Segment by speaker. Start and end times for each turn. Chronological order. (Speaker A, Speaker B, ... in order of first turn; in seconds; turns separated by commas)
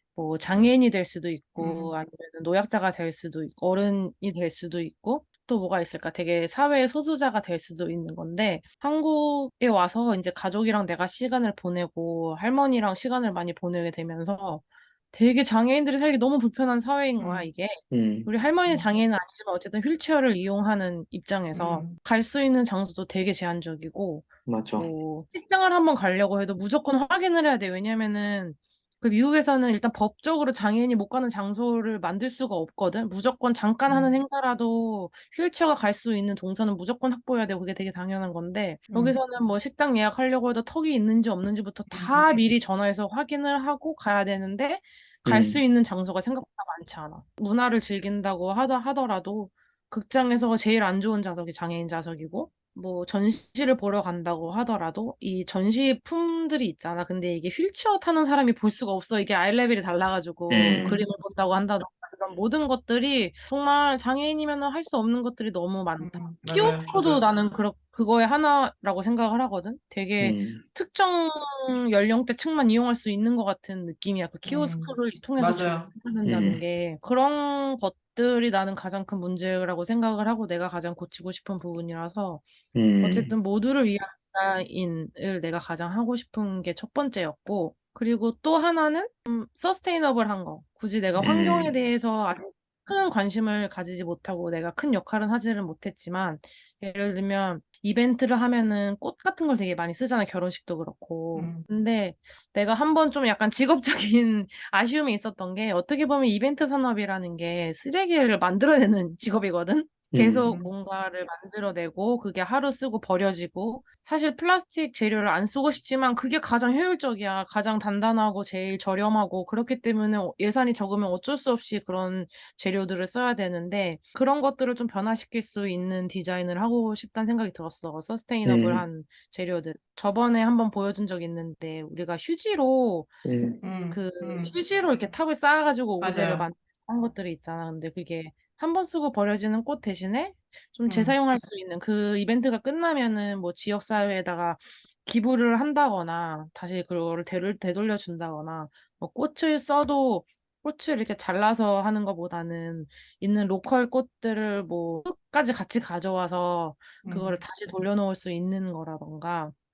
Speaker A: 0.1-82.5, Speaker B: 1.6-1.9, Speaker B: 17.2-17.5, Speaker C: 17.9-18.3, Speaker B: 21.5-21.9, Speaker C: 24.4-24.9, Speaker B: 33.9-34.1, Speaker B: 38.9-39.2, Speaker B: 41.9-42.4, Speaker C: 45.2-45.6, Speaker C: 60.5-61.0, Speaker B: 60.7-61.0, Speaker B: 66.0-67.2, Speaker C: 70.2-70.6, Speaker B: 74.4-75.9, Speaker C: 76.2-76.6, Speaker C: 82.7-83.3, Speaker A: 83.0-133.2, Speaker C: 91.2-91.7, Speaker B: 101.3-101.7, Speaker C: 110.1-110.5, Speaker B: 110.5-110.7, Speaker C: 128.4-128.8, Speaker C: 133.2-133.6, Speaker B: 133.6-134.5, Speaker A: 133.9-159.5, Speaker B: 136.0-136.5, Speaker B: 140.9-141.2, Speaker B: 157.0-157.4